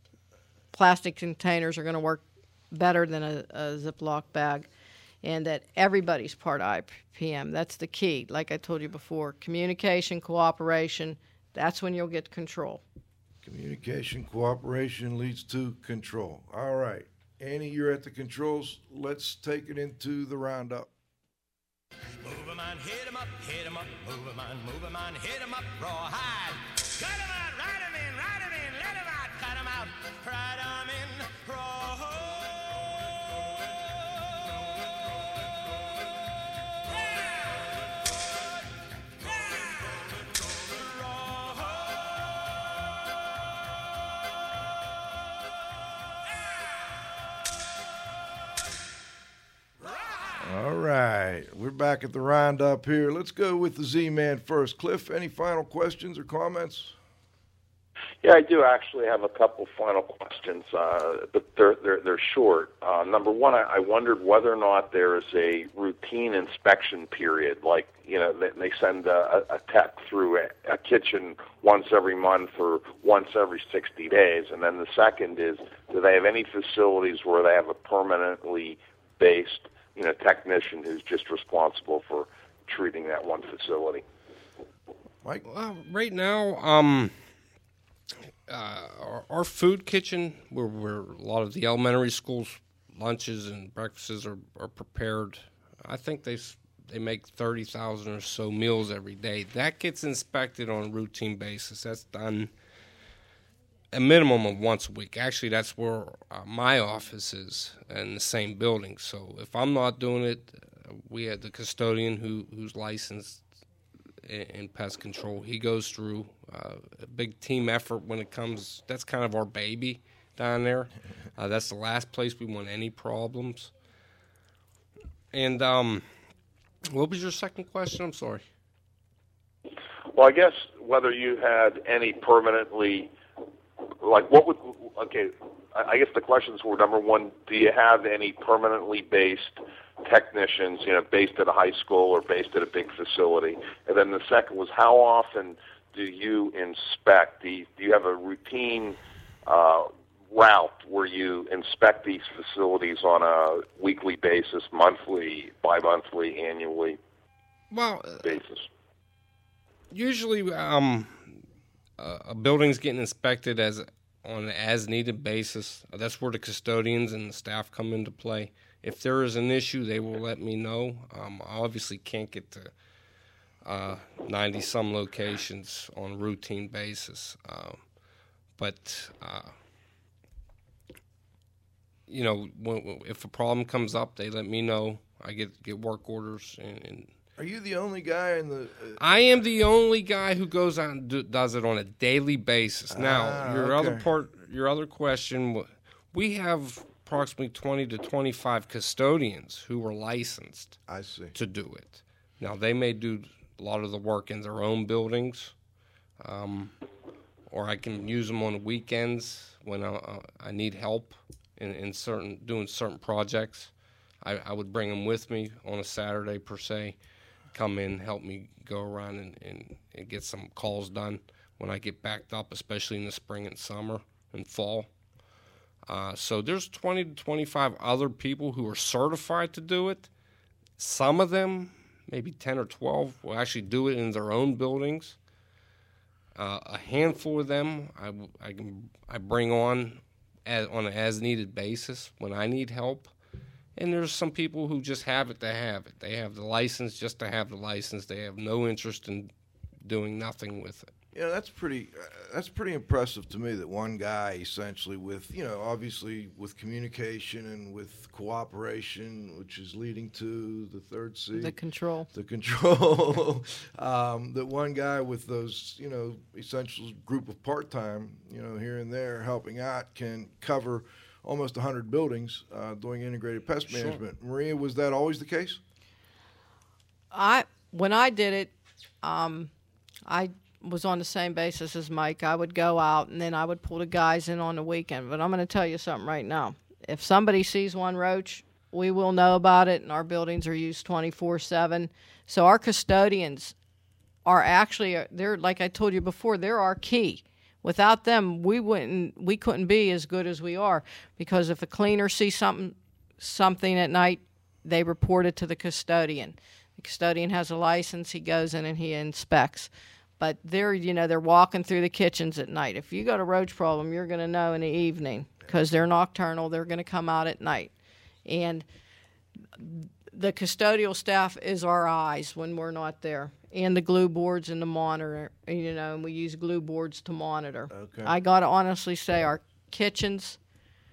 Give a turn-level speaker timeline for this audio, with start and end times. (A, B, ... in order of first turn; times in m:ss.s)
0:00.7-0:04.7 A
0:05.2-0:12.8 A
0:13.4-0:20.9 B
0:22.2-0:32.4 C
0:41.2-0:41.5 C
0:50.4-0:56.9 B
0:58.2-1:24.0 D
1:25.4-1:27.1 E
1:28.5-1:42.5 E
1:43.9-1:53.4 E
1:54.2-2:03.7 E
2:05.3-2:06.0 E
2:06.9-2:08.4 E
2:10.1-2:13.1 D
2:14.0-2:37.0 D
2:37.7-2:38.3 E
2:38.2-2:38.7 D
2:39.9-2:41.4 E
2:42.0-2:52.7 E
2:53.6-2:57.8 E
2:58.6-2:59.5 E
3:02.1-3:07.1 E
3:07.4-3:09.0 B
3:09.0-3:20.8 E
3:12.9-3:14.0 B
3:20.9-3:21.3 B
3:21.3-3:25.5 E
3:26.2-3:26.7 E
3:27.5-3:33.7 E
3:34.2-3:37.0 E
3:37.5-3:44.9 E
3:45.9-3:50.1 E
3:50.8-3:55.2 E
3:56.3-4:03.1 E
4:03.8-4:09.3 E
4:09.8-4:10.9 E
4:11.1-4:21.6 B
4:21.3-4:22.1 A
4:22.1-4:35.6 B
4:33.7-4:34.0 E
4:37.1-4:39.5 A
4:40.1-4:53.5 A
4:54.2-5:17.7 A
5:18.2-5:18.6 A
5:19.6-5:30.4 A
5:27.7-5:28.1 B